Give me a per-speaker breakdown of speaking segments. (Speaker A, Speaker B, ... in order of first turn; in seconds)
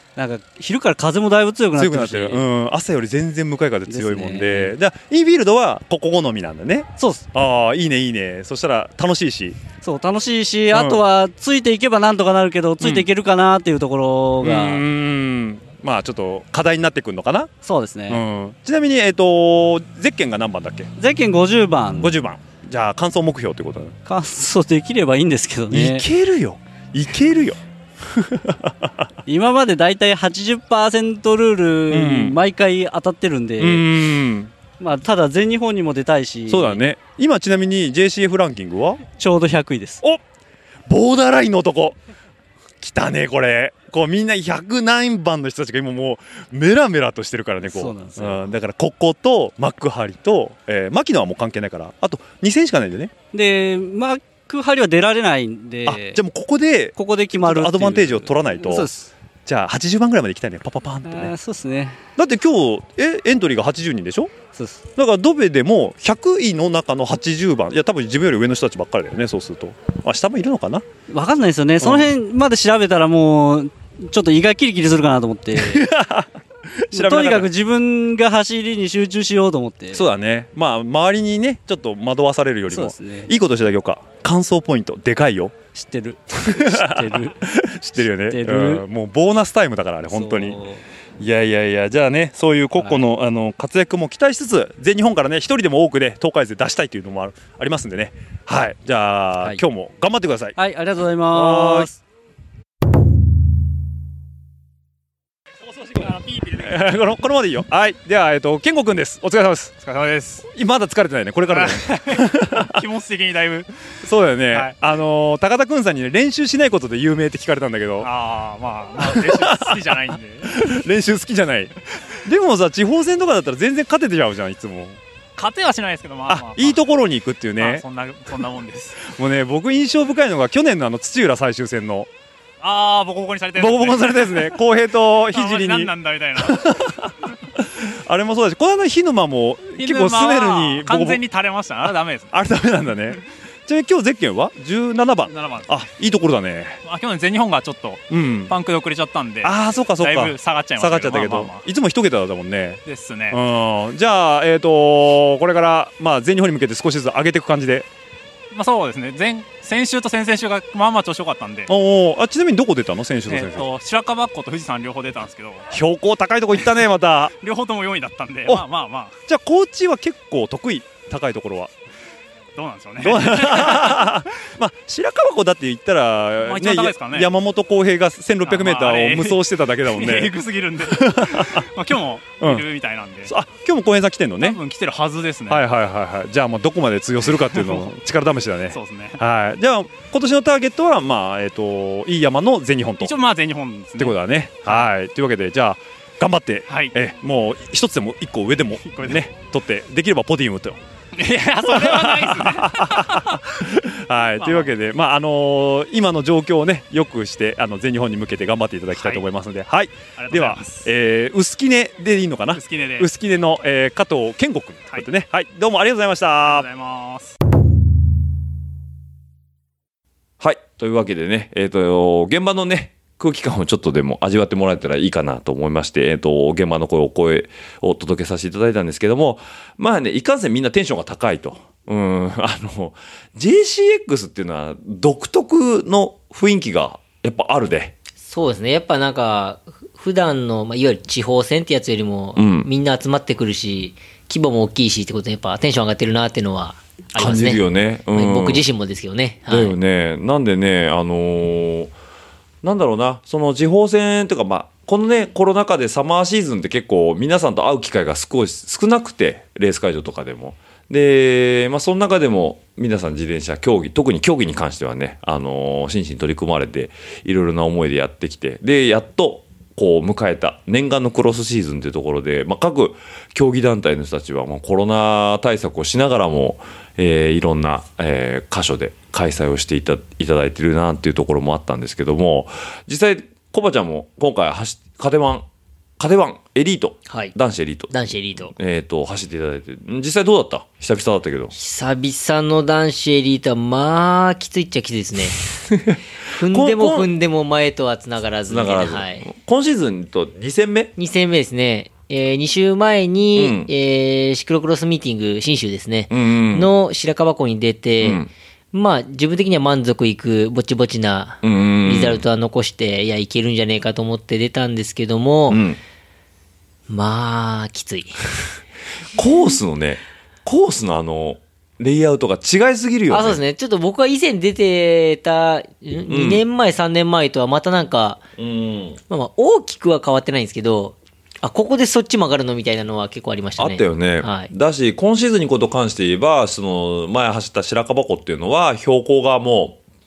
Speaker A: 0.1-2.4, 3.9-4.7, 7.0-7.2, 9.8-14.8, 17.6-18.2, 21.0-22.1, 24.1-26.1, 29.2-33.9, 34.8-36.8, 39.2-40.0, 47.6-48.5, 53.3-56.2, 57.0-59.1, 61.0-62.0, 64.5-64.8, 71.1-75.8, 76.9-80.0, 82.7-83.3, 85.7-87.3, 88.0-88.8, 90.1-90.8, 92.8-93.0, 100.5-101.9
Speaker B: 1.8-9.6, 10.7-11.0, 12.8-13.1, 14.4-17.5, 18.1-20.9, 22.0-23.9, 25.7-27.6, 28.2-28.7, 31.9-32.4, 33.6-34.5, 36.5-39.0, 40.9-42.0, 42.8-53.1, 55.9-58.9, 59.5-61.3, 62.2-64.3, 65.0-70.8, 71.8-72.1, 75.5-76.3, 76.9-77.5, 79.9-85.5, 86.4-90.6, 91.2-100.6, 101.3-101.9, 106.6-109.8, 110.5-112.8, 114.0-118.1, 119.0-125.0, 126.3-127.8, 129.0-132.1, 133.5-141.2, 141.9-146.8, 148.1-148.6, 149.4-157.9, 161.7-163.7, 165.7-167.3, 169.2-171.7, 173.0-181.7, 182.4-182.7, 183.2-184.6, 185.5-193.2, 194.0-200.8, 201.6-216.7
Speaker C: 105.8-106.8, 109.8-110.4, 111.5-113.7, 118.0-120.5, 125.3-126.8, 127.6-129.0, 132.6-134.6, 135.3-136.6, 139.8-142.3, 145.2-145.8, 146.8-151.6, 152.8-153.4, 158.5-161.7, 163.3-165.7, 167.3-169.1, 172.6-174.1, 176.4-177.3, 178.4-183.3, 184.4-185.7, 187.2-187.9, 188.7-189.2, 193.0-194.9, 196.7-196.9, 198.8-199.2, 201.2-203.4, 204.4-204.7, 208.9-209.2, 210.2-210.9, 212.5-213.1, 216.4-217.3
Speaker D: 220.4-237.9, 242.3-242.7, 247.2-248.6, 249.5-251.9, 252.6-285.4, 286.0-291.5, 295.7-297.1, 298.5-300.9, 303.4-303.7, 306.1-306.7, 308.0-308.3, 311.4-312.2, 315.5-315.8, 319.1-323.4, 326.1-326.4, 328.4-329.0, 333.6-339.8
Speaker E: 238.2-249.8, 287.1-287.3, 287.9-288.5, 291.5-295.4, 296.3-299.3, 301.0-315.6, 316.9-318.2, 323.1-328.2, 329.1-334.5